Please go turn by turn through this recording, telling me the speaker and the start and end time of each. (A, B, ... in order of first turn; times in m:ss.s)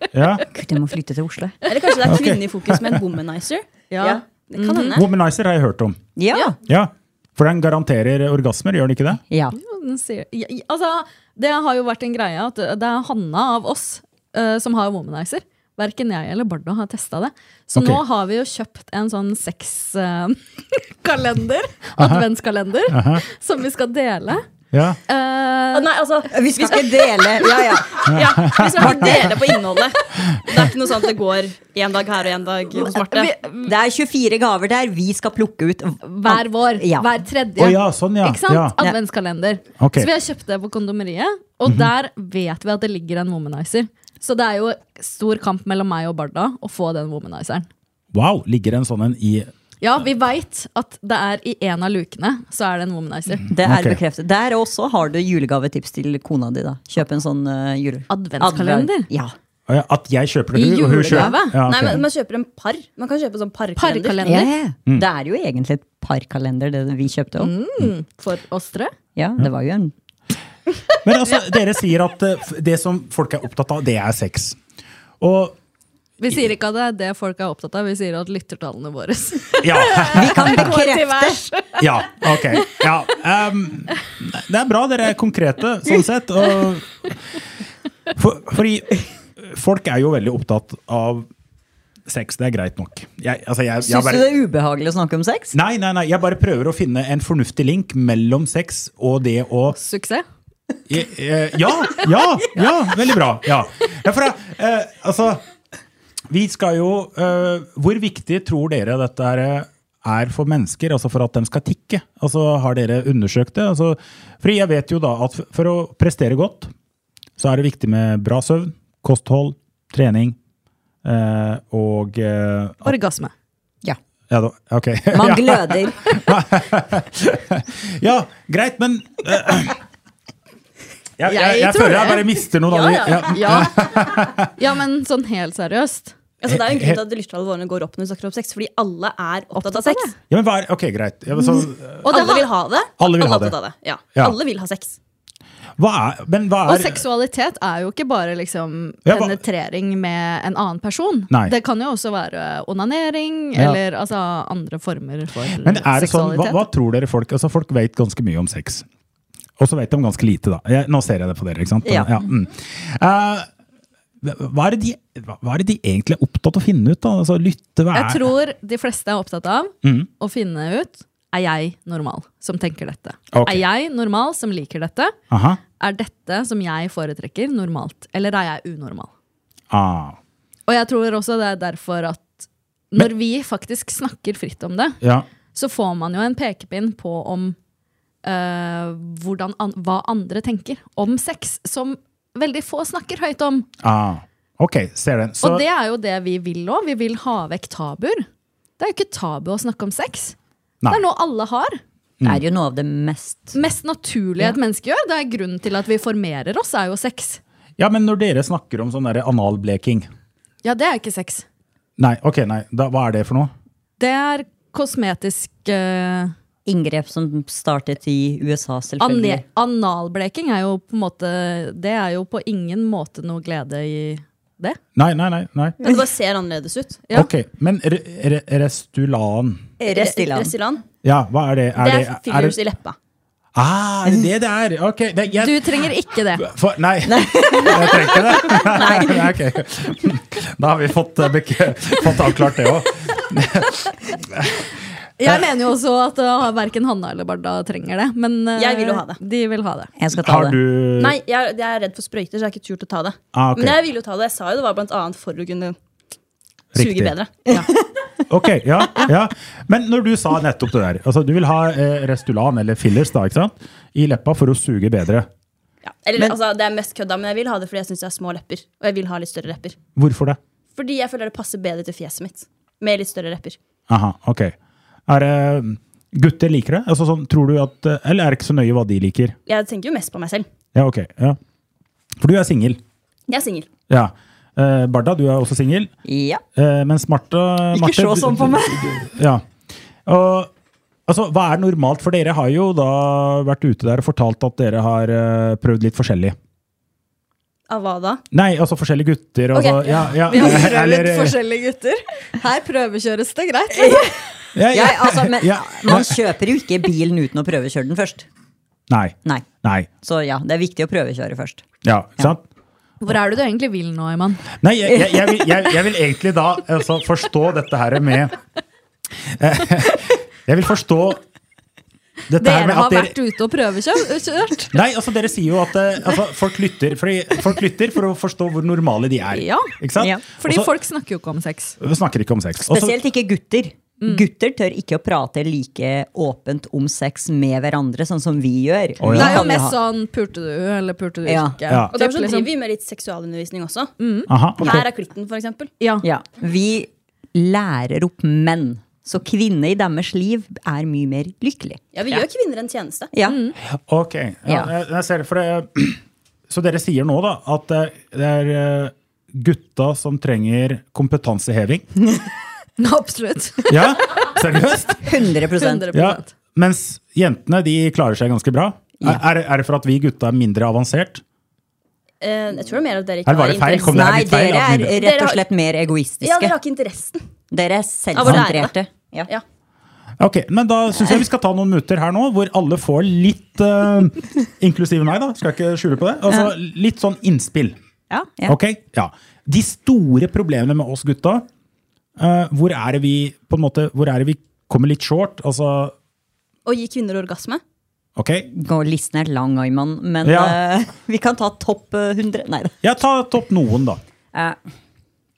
0:00.1-0:00.4 A
0:00.5-0:01.6 B
0:01.6-0:03.6 C
0:02.0-0:03.0 A
0:03.9-0:05.0 D
0:04.5-0:05.1 C
0:04.9-0:06.0 A
0:06.2-0:06.5 B
0:06.6-0:09.2 A
0:09.3-0:09.6 B
0:09.5-0:24.4 D
0:17.7-0:18.0 A
0:22.0-0:22.2 A
0:22.9-0:23.2 A
0:24.7-0:25.0 A
0:25.1-0:25.9 D
0:25.7-0:33.3 C
0:26.3-0:28.1 B
0:28.1-0:29.3 A
0:28.8-0:29.2 B
0:32.9-0:33.7 D
0:33.6-0:37.1 B
0:36.0-0:47.7 D
0:37.6-0:38.7 A
0:39.8-0:40.1 A
0:41.6-0:41.9 A
0:48.1-0:49.5 A
0:49.8-0:53.4 D
0:53.5-0:59.4 B
0:53.5-0:54.0 A
0:58.1-0:59.1 D
0:59.7-1:02.0 A
1:00.5-1:01.6 D
1:01.1-1:01.4 B
1:01.6-1:04.3 C
1:03.8-1:04.5 D
1:04.2-1:07.5 B
1:07.4-1:08.9 D
1:09.2-1:09.9 B
1:11.0-1:14.6 A
1:15.2-1:15.6 A
1:16.2-1:21.9 D
1:19.6-1:20.6 A
1:20.1-1:21.4 B
1:21.8-1:27.2 A
1:22.5-1:22.8 D
1:28.1-1:31.3 A
1:32.1-1:34.3 A
1:33.8-1:35.5 B
1:35.5-1:39.8 A
1:39.7-1:40.2 D
1:40.9-1:45.4 A
1:46.3-1:56.7 A
1:57.4-2:00.4 A
2:01.0-2:03.0 A
2:02.8-2:03.3 D
2:04.3-2:09.8 A
2:05.1-2:06.2 B
2:11.2-2:14.5 A
2:11.3-2:12.2 D
2:12.7-2:13.6 C
2:13.2-2:16.1 D
2:16.4-2:20.1 C
2:16.5-2:17.0 A
2:19.5-2:20.1 D
2:20.3-2:22.3 A
2:22.0-2:22.5 D
2:22.0-2:25.0 C
2:23.0-2:23.6 A
2:25.8-2:27.0 A
2:26.6-2:36.7 D
2:29.0-2:29.4 A
2:35.6-2:38.8 A
2:39.6-2:43.5 A
2:41.8-2:42.2 B
2:44.2-2:48.3 A
2:47.9-2:55.1 D
2:49.8-2:50.1 A
2:53.3-2:53.6 A
2:55.3-2:55.6 A
2:55.8-2:59.1 D
2:59.7-3:00.2 A
3:00.7-3:05.0 D
3:05.0-3:05.2 A
3:05.5-3:07.6 D
3:08.2-3:13.7 D
3:13.8-3:15.6 A
3:15.4-3:18.2 D
3:18.8-3:20.4 D
3:20.9-3:21.8 D
3:22.2-3:23.6 B
3:23.5-3:27.4 D
3:27.8-3:30.1 A
3:30.6-3:31.4 D
3:32.0-3:33.5 A
3:34.0-3:36.3 D
3:36.6-3:39.4 B
3:39.0-3:44.8 D
3:45.0-3:45.8 A
3:45.8-3:47.0 C
3:47.1-3:49.7 A
3:49.8-3:50.5 B
3:49.9-3:50.8 C
3:51.0-3:52.6 A
3:51.8-3:53.0 C
3:53.5-3:55.9 A
3:55.4-3:56.4 D
3:56.4-4:04.7 A
3:57.0-3:59.3 B
4:05.2-4:09.9 D
4:08.6-4:09.2 C
4:10.0-4:10.6 B
4:10.1-4:11.2 A
4:11.0-4:15.8 C
4:13.3-4:13.8 A
4:16.7-4:17.1 A
4:16.7-4:17.7 C
4:17.5-4:17.9 B
4:18.3-4:25.3 A
4:25.8-4:29.8 C
4:30.0-4:30.4 A
4:30.8-4:33.6 C
4:33.9-4:34.5 A
4:35.1-4:39.4 A
4:39.4-4:40.5 C
4:40.7-4:41.4 A
4:42.2-4:42.8 A
4:43.3-4:43.7 C
4:43.9-4:45.9 A
4:46.0-4:46.4 B
4:46.6-4:49.4 A
4:47.7-4:49.1 B
4:50.0-4:50.5 A
4:51.1-4:56.4 A
4:57.7-4:58.2 C
4:58.3-5:01.4 A
4:59.5-5:00.7 C
5:00.3-5:04.2 D
5:03.7-5:04.1 B
5:04.5-5:06.2 A
5:04.7-5:08.2 B
5:08.9-5:09.9 A
5:10.0-5:11.6 B
5:11.8-5:12.4 A
5:13.0-5:14.4 D
5:14.6-5:18.4 A
5:14.9-5:15.3 B
5:19.2-5:21.2 A
5:22.3-5:23.1 A
5:22.4-5:24.8 D
5:24.7-5:30.7 A
5:29.3-5:29.7 D
5:30.4-5:31.8 D
5:31.8-5:33.0 A
5:32.6-5:39.8 B
5:39.0-5:39.4 A
5:39.1-5:42.5 D
5:41.2-5:41.5 B
5:41.9-5:43.9 C
5:44.0-5:44.3 D
5:44.3-5:44.9 A
5:44.6-5:45.7 C
5:45.8-5:46.0 D
5:46.0-5:52.2 B
5:51.9-5:53.1 C
5:53.2-5:53.5 D
5:53.7-6:01.9 A
6:02.8-6:04.0 D
6:03.7-6:05.1 A
6:05.0-6:05.9 B
6:05.6-6:06.3 D
6:05.9-6:11.2 A
6:12.2-6:14.0 C
6:13.2-6:15.0 A
6:13.9-6:16.5 B
6:14.9-6:15.4 C
6:16.2-6:17.2 C
6:17.5-6:19.3 B
6:18.1-6:18.7 C
6:20.2-6:27.8 A
6:28.4-6:31.4 A
6:32.2-6:35.9 A
6:36.6-6:37.6 C
6:38.2-6:38.5 A
6:38.5-6:42.8 B
6:40.2-6:40.6 A
6:42.8-6:44.0 A